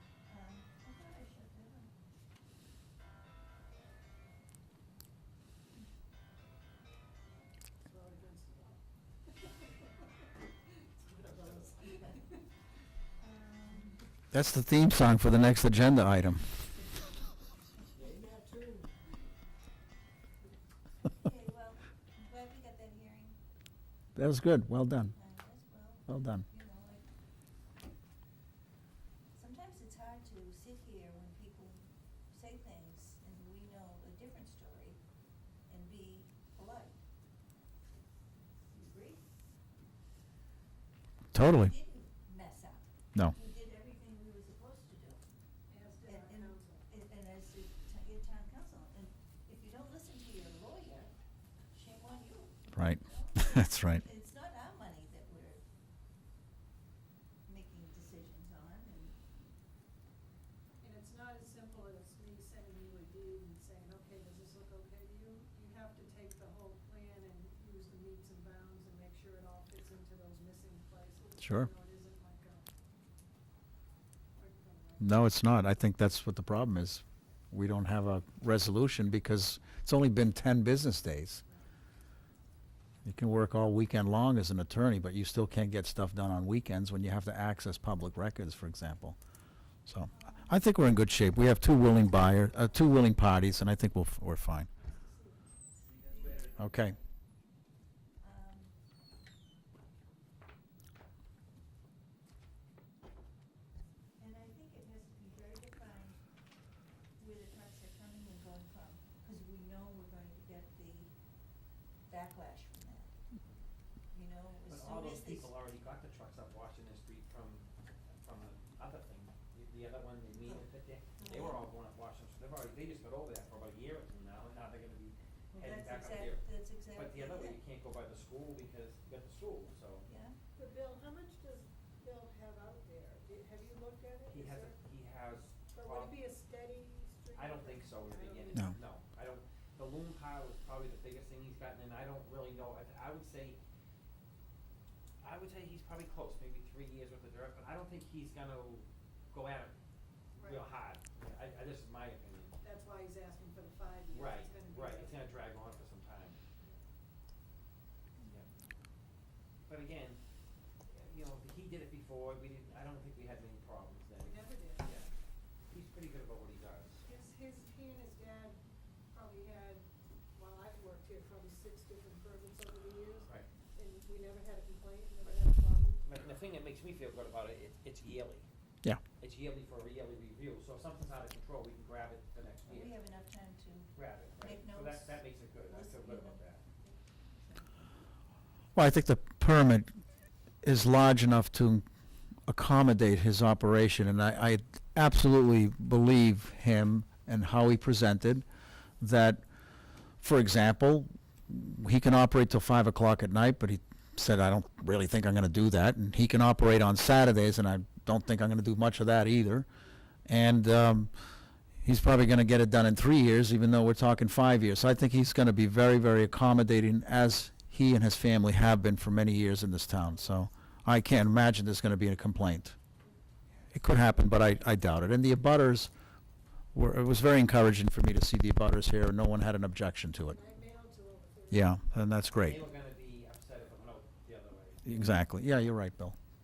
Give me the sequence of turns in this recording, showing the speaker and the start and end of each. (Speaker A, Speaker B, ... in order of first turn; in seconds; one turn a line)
Speaker A: 0.2-1.9
Speaker B: 7.8-12.4
Speaker C: 11.2-11.6
Speaker A: 11.9-12.2
Speaker A: 13.2-14.0
Speaker D: 14.3-16.6
Speaker B: 17.9-19.1
Speaker A: 21.0-23.4
Speaker D: 24.1-25.1
Speaker A: 24.9-27.1
Speaker D: 26.1-26.4
Speaker A: 29.3-35.0
Speaker A: 35.7-37.0
Speaker A: 38.7-39.2
Speaker D: 41.3-41.7
Speaker A: 41.4-45.2
Speaker B: 45.7-46.9
Speaker A: 46.0-51.1
Speaker A: 51.7-55.6
Speaker D: 52.7-54.0
Speaker A: 57.4-59.2
Speaker B: 60.8-72.7
Speaker D: 71.4-71.7
Speaker B: 74.4-75.2
Speaker D: 75.0-81.4
Speaker B: 81.4-81.7
Speaker D: 83.0-89.2
Speaker D: 89.8-94.7
Speaker A: 90.1-90.7
Speaker A: 92.3-92.8
Speaker B: 94.8-96.2
Speaker A: 96.0-97.0
Speaker D: 96.6-96.9
Speaker A: 98.2-98.7
Speaker A: 104.2-106.2
Speaker A: 107.2-111.1
Speaker A: 112.1-113.1
Speaker A: 114.1-115.5
Speaker C: 114.7-130.1
Speaker A: 121.2-121.6
Speaker A: 125.5-127.6
Speaker A: 130.1-130.4
Speaker B: 130.5-134.8
Speaker C: 134.3-136.2
Speaker B: 135.7-138.7
Speaker C: 137.3-143.6
Speaker C: 145.2-149.7
Speaker B: 150.3-150.7
Speaker C: 150.4-152.6
Speaker B: 152.6-155.2
Speaker C: 154.1-156.4
Speaker A: 158.2-158.5
Speaker C: 159.7-160.2
Speaker C: 160.9-165.1
Speaker B: 164.2-165.0
Speaker C: 165.7-167.0
Speaker B: 167.0-168.6
Speaker B: 169.1-176.0
Speaker C: 176.0-178.5
Speaker C: 179.2-183.0
Speaker A: 182.7-188.0
Speaker C: 183.9-186.6
Speaker D: 188.7-189.9
Speaker D: 190.6-191.8
Speaker D: 192.5-198.4
Speaker D: 199.0-199.4
Speaker D: 200.2-209.7
Speaker D: 210.3-211.1
Speaker D: 211.8-222.7
Speaker B: 220.1-220.5
Speaker D: 223.7-225.9
Speaker D: 226.7-230.4
Speaker B: 230.2-231.9
Speaker D: 231.5-232.6
Speaker C: 232.4-235.2
Speaker D: 234.8-236.2